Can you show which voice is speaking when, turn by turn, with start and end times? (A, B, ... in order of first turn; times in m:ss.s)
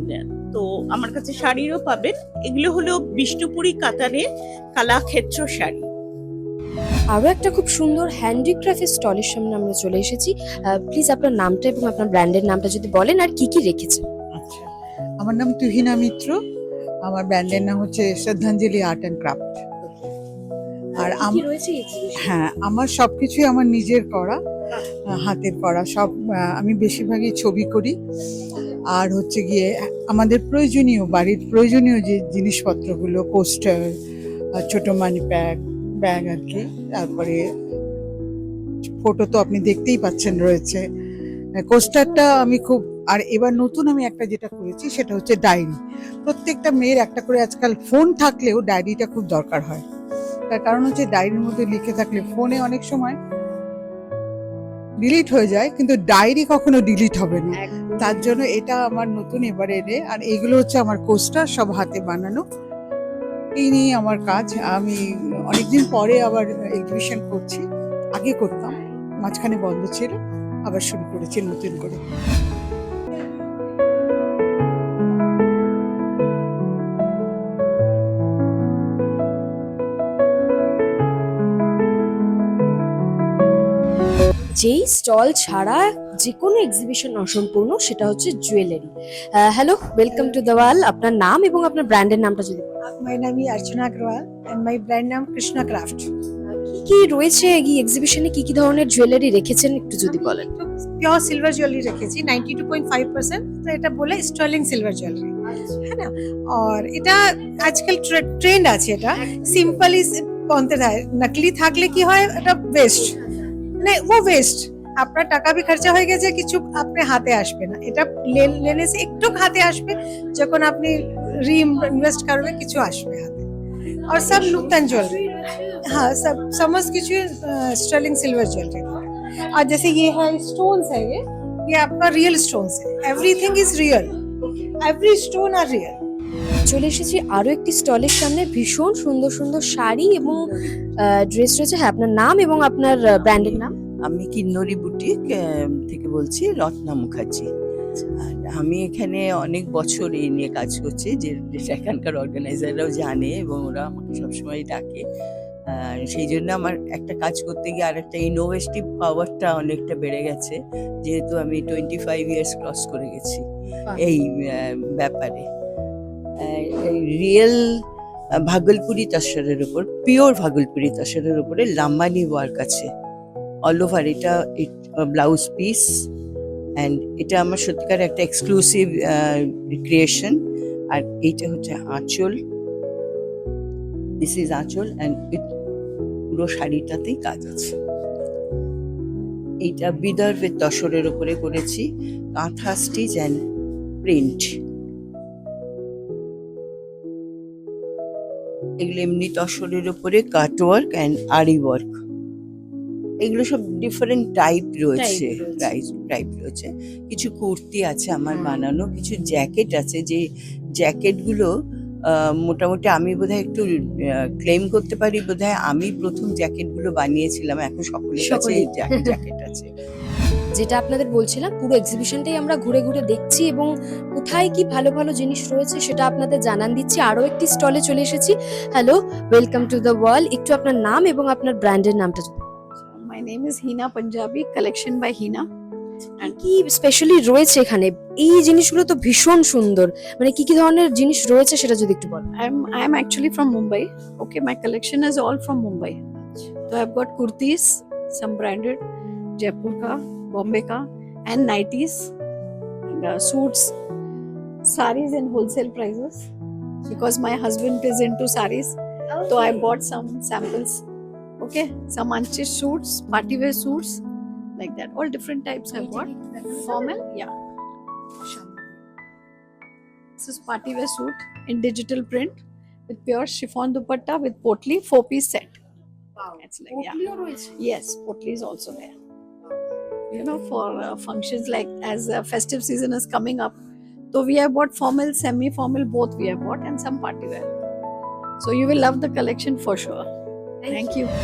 0:00.5-0:05.9 A
0:07.1-0:14.0 B
0:14.3-0:14.7 C
0:15.2-0:16.4 C
0:17.0-0:20.1 C
0:20.9-0:22.3 B
0:21.0-0:21.4 C
0:22.2-0:24.4 C
0:25.2-0:27.9 C
0:28.9-0:34.0 C
0:34.6-0:37.4 C
0:39.0-0:40.8 C
0:41.6-0:49.8 C
0:50.5-0:53.2 C
0:55.0-1:02.4 C
0:57.8-0:58.3 B
1:03.6-1:05.0 C
1:05.5-1:07.6 C
1:08.1-1:10.2 C
1:10.7-1:12.0 C
1:24.6-1:32.7 B
1:32.9-1:36.1 D
1:36.5-1:40.5 B
1:40.5-1:53.2 D
1:53.8-2:03.5 D
2:04.1-2:08.8 D
2:09.6-2:14.1 D
2:14.8-2:16.0 D
2:16.7-2:23.7 B
2:24.0-2:27.5 E
2:28.2-2:35.0 E
2:35.7-2:45.5 E
2:46.4-2:47.8 E
2:48.4-2:52.9 E
2:53.6-2:56.1 E
2:56.8-3:02.4 E
3:04.2-3:05.5 E
3:06.3-3:07.7 E
3:09.6-3:13.4 E
3:14.0-3:14.6 E
3:18.8-3:22.0 E
3:23.2-3:30.2 E
3:30.8-3:31.5 E
3:32.1-3:39.7 E
3:38.2-3:39.1 B
3:40.5-3:52.5 B
3:52.8-3:55.4 F
3:56.2-4:02.2 B
4:02.4-4:08.8 F
4:09.4-4:12.1 F
4:12.9-4:13.7 F
4:14.6-4:16.3 F
4:16.8-4:20.8 F
4:21.4-4:24.0 F
4:24.6-4:27.3 F
4:30.2-4:35.6 F
4:36.4-4:37.0 F
4:36.8-4:37.5 D
4:37.6-4:38.9 F
4:40.1-4:43.6 F
4:44.1-4:47.5 F
4:48.4-4:50.0 F
4:50.6-4:50.9 B
4:50.7-4:51.1 F